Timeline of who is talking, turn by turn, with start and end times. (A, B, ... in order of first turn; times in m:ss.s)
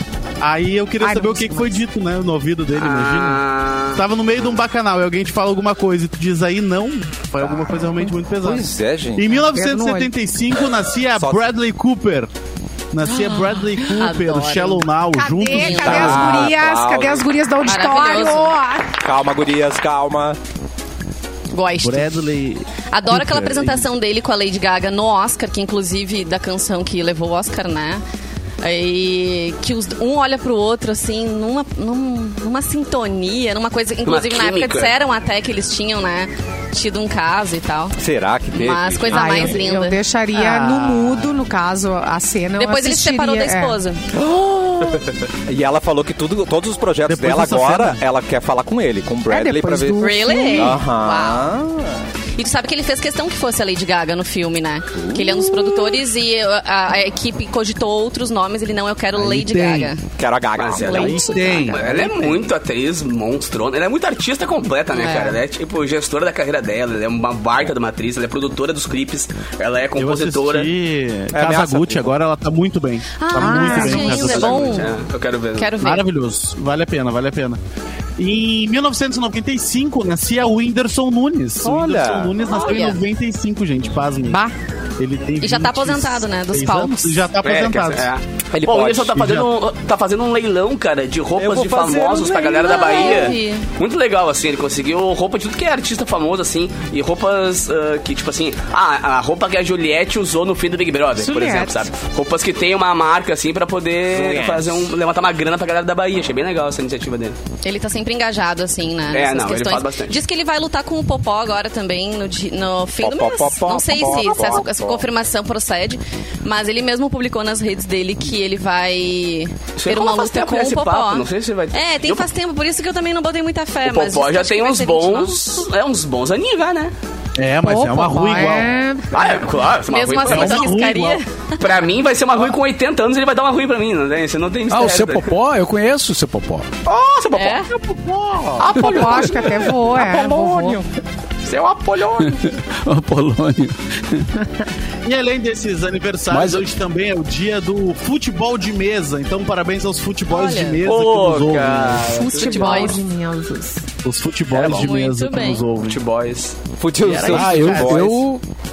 0:00.4-0:12.3 A
0:01.0-0:01.8 B
0:02.7-0:04.0 C
0:08.4-0:09.3 D
0:09.3-0:10.1 B
0:12.9-0:16.2 A
0:13.8-0:14.8 E
0:15.2-0:18.9 B
0:15.5-0:16.4 E
0:15.8-0:17.3 D
0:17.6-0:18.5 E
0:19.0-0:20.4 D
0:21.5-0:22.2 E
0:21.8-0:23.9 A
0:22.8-0:28.0 E
0:28.6-0:37.9 E
0:34.0-0:34.9 C
0:38.0-0:39.6 D
0:38.5-0:40.9 E
0:39.1-0:43.8 B
0:42.6-0:44.0 E
0:44.1-0:52.0 D
0:47.1-0:48.0 A
0:49.3-0:50.8 B
0:50.0-0:51.5 E
0:52.4-1:00.0 E
0:54.9-0:55.9 D
0:59.1-0:59.9 A
1:00.2-1:01.3 D
1:00.6-1:10.7 C
1:00.8-1:01.8 E
1:00.9-1:02.2 A
1:05.0-1:05.4 E
1:10.0-1:14.9 A
1:11.3-1:12.1 D
1:13.2-1:14.9 E
1:13.4-1:14.2 B
1:14.1-1:15.7 C
1:15.6-1:16.0 E
1:15.8-1:17.6 A
1:18.2-1:28.1 A
1:21.6-1:22.3 D
1:22.4-1:23.0 E
1:25.4-1:27.2 E
1:27.4-1:47.4 C
1:28.5-1:29.2 D
1:29.2-1:29.5 A
1:31.4-1:33.3 D
1:32.4-1:33.6 E
1:41.2-1:41.9 B
1:44.1-1:44.9 D
1:47.6-2:05.6 E
1:49.1-1:50.2 C
1:53.0-1:55.0 D
1:59.8-2:02.3 C
2:03.8-2:06.9 C
2:07.4-2:08.8 A
2:07.6-2:09.4 B
2:09.1-2:10.8 C
2:09.9-2:11.6 E
2:10.2-2:11.2 A
2:11.6-2:15.3 C
2:14.7-2:16.7 F
2:16.8-2:17.6 C
2:17.3-2:17.7 E
2:17.7-2:18.7 A
2:18.6-2:19.7 C
2:18.6-2:20.8 B
2:18.8-2:19.4 F
2:19.9-2:20.8 D
2:21.4-2:22.4 C
2:22.2-2:24.3 F
2:25.0-2:32.3 A
2:26.3-2:26.6 F
2:30.3-2:30.8 E
2:30.8-2:33.0 C
2:32.1-2:33.8 B
2:32.3-2:33.0 E
2:34.0-2:36.0 A
2:34.5-2:34.9 C
2:34.7-2:35.7 E
2:35.8-2:36.5 C
2:36.8-2:38.2 D
2:37.0-2:38.2 A
2:37.2-2:38.4 F